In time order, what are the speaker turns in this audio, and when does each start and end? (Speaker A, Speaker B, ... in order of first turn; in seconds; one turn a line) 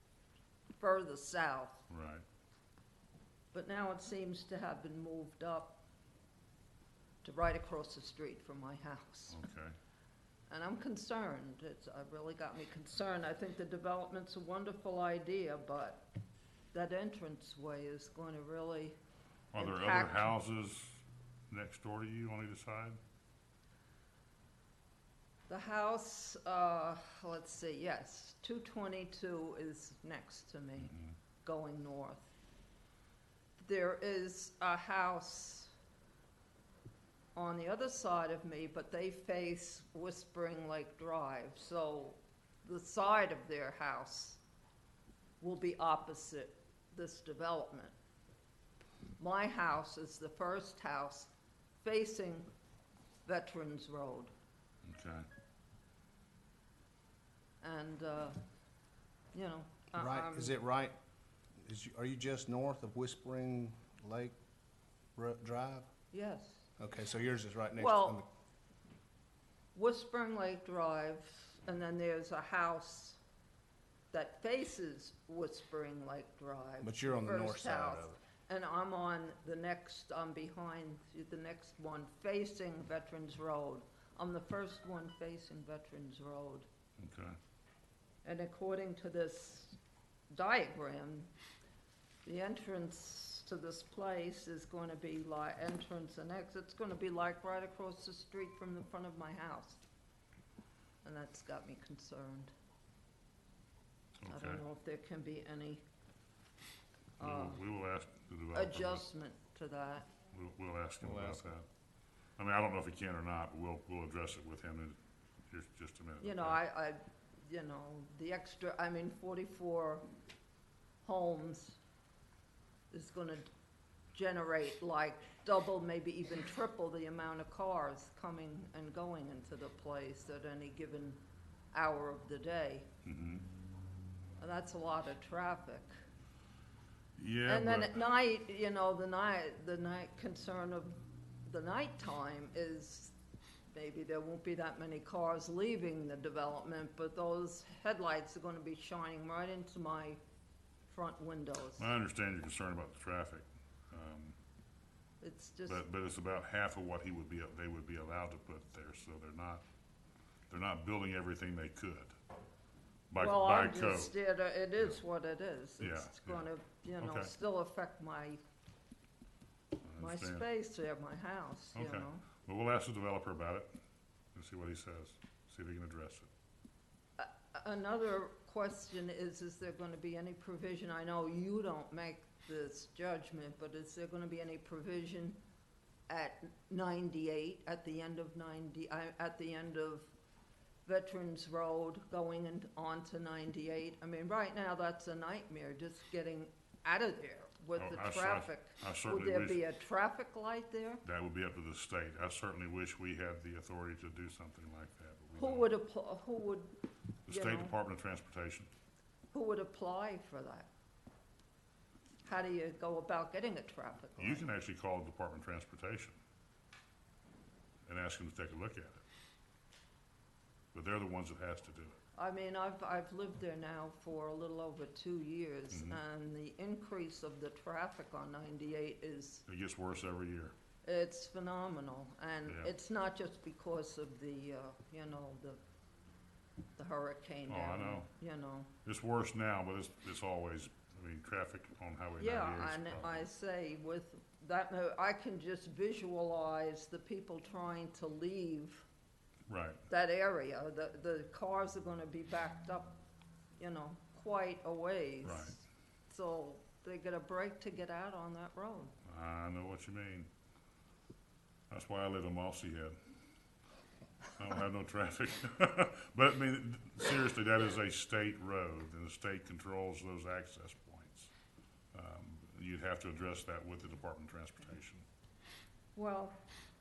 Speaker A: 0.8-1.9
Speaker B: 1.9-2.2
Speaker A: 3.5-5.8
Speaker A: 7.2-9.4
Speaker B: 9.3-9.8
Speaker A: 10.5-16.1
Speaker A: 16.7-18.9
Speaker B: 19.5-23.0
Speaker A: 19.6-20.3
Speaker A: 25.5-32.3
Speaker B: 30.8-31.1
Speaker A: 33.6-35.7
Speaker A: 37.4-44.4
Speaker A: 45.4-47.9
Speaker A: 49.2-52.5
Speaker A: 53.2-54.3
Speaker B: 54.9-55.3
Speaker A: 57.6-58.4
Speaker A: 59.3-60.6
Speaker C: 60.0-61.0
Speaker C: 61.6-64.4
Speaker C: 65.2-65.9
Speaker A: 66.1-66.7
Speaker C: 66.8-68.3
Speaker A: 67.8-68.2
Speaker A: 69.8-73.2
Speaker A: 74.1-86.7
Speaker C: 76.8-78.2
Speaker B: 87.0-87.4
Speaker A: 88.2-89.8
Speaker A: 90.3-91.3
Speaker A: 92.2-99.8
Speaker A: 101.0-102.5
Speaker B: 104.2-104.6
Speaker A: 104.3-105.8
Speaker A: 107.2-107.6
Speaker B: 107.2-109.0
Speaker A: 108.5-110.1
Speaker B: 110.3-111.7
Speaker C: 111.0-111.5
Speaker B: 112.4-115.0
Speaker B: 115.5-116.6
Speaker A: 116.2-120.1
Speaker A: 121.0-121.8
Speaker A: 122.9-123.5
Speaker A: 124.1-131.2
Speaker A: 131.7-132.9
Speaker B: 133.0-133.4
Speaker A: 134.4-135.9
Speaker B: 137.2-138.0
Speaker A: 137.5-143.1
Speaker A: 143.7-150.2
Speaker A: 150.9-151.9
Speaker B: 151.8-154.4
Speaker A: 155.2-155.8
Speaker B: 155.7-159.6
Speaker B: 160.5-162.1
Speaker B: 163.1-164.1
Speaker A: 163.2-168.4
Speaker B: 165.8-166.5
Speaker B: 167.0-167.3
Speaker B: 169.8-170.5
Speaker A: 170.0-172.3
Speaker B: 171.8-173.7
Speaker B: 174.3-176.3
Speaker A: 177.2-185.4
Speaker A: 186.1-190.1
Speaker A: 190.9-201.0
Speaker B: 197.8-199.6
Speaker B: 201.0-205.7
Speaker A: 205.4-206.7
Speaker B: 207.3-208.7
Speaker A: 207.3-207.7
Speaker A: 209.3-210.7
Speaker A: 212.2-214.5
Speaker B: 214.2-216.2
Speaker B: 217.9-219.0
Speaker B: 220.7-222.0
Speaker A: 222.2-229.4
Speaker B: 225.7-226.0
Speaker B: 229.5-230.5
Speaker A: 230.8-235.6
Speaker A: 236.8-238.7
Speaker B: 237.5-238.1
Speaker B: 238.8-243.3
Speaker A: 242.2-248.9
Speaker B: 249.5-249.8
Speaker A: 249.9-253.0
Speaker A: 253.6-258.9
Speaker B: 255.2-255.6
Speaker B: 259.1-260.3
Speaker B: 261.7-263.0
Speaker B: 264.4-271.3
Speaker B: 271.9-275.1
Speaker A: 276.0-276.4